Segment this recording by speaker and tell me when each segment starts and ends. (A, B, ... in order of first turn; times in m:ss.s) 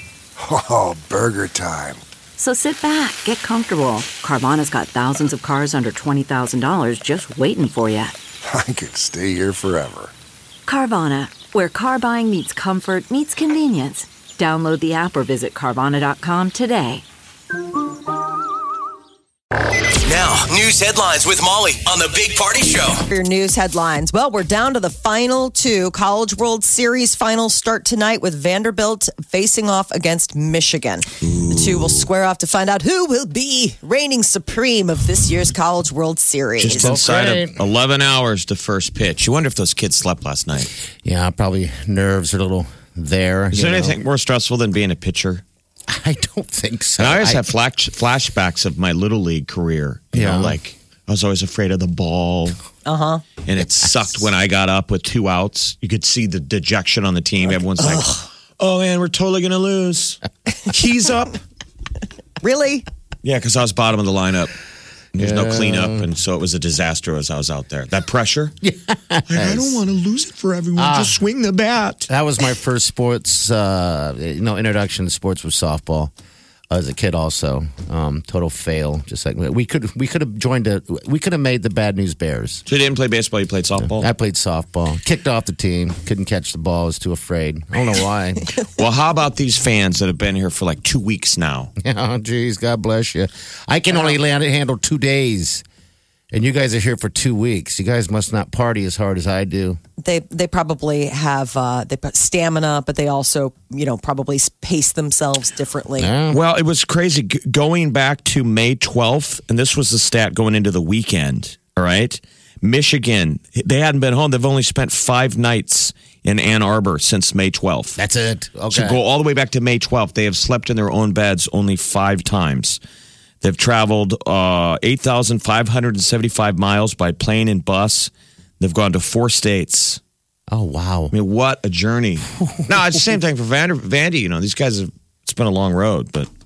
0:00.4-0:02.0 A
0:02.4-0:08.2 B
0:08.4-0:10.1 A
0:10.7-0:17.0 B
0:20.0-0:23.0 C
0:23.0-0:37.0 D
0:31.2-0:32.0 E
0:36.6-0:40.7 E
0:36.7-0:37.6 F
0:41.0-0:44.0 F
0:43.5-0:45.4 E
0:45.9-0:47.4 F
0:47.0-0:52.6 E
0:50.1-0:50.6 F
0:52.8-0:53.2 D
0:53.4-1:01.3 E
0:57.8-0:58.2 D
1:02.4-1:02.9 D
1:03.2-1:04.5 E
1:05.1-1:08.5 E
1:05.2-1:06.0 F
1:08.6-1:09.8 F
1:09.3-1:12.1 E
1:10.8-1:11.2 F
1:12.1-1:16.1 F
1:16.7-1:22.6 F
1:22.7-1:24.1 E
1:23.8-1:28.4 F
1:28.7-1:31.7 E
1:31.8-1:35.6 F
1:33.9-1:34.2 D
1:36.3-1:39.8 F
1:40.0-1:46.1 D
1:46.0-1:46.4 F
1:46.3-1:58.0 E
1:58.0-1:59.0 F
1:58.7-2:02.8 E
2:03.4-2:10.0 E
2:10.5-2:11.1 F
2:11.1-2:16.3 E
2:12.4-2:12.7 F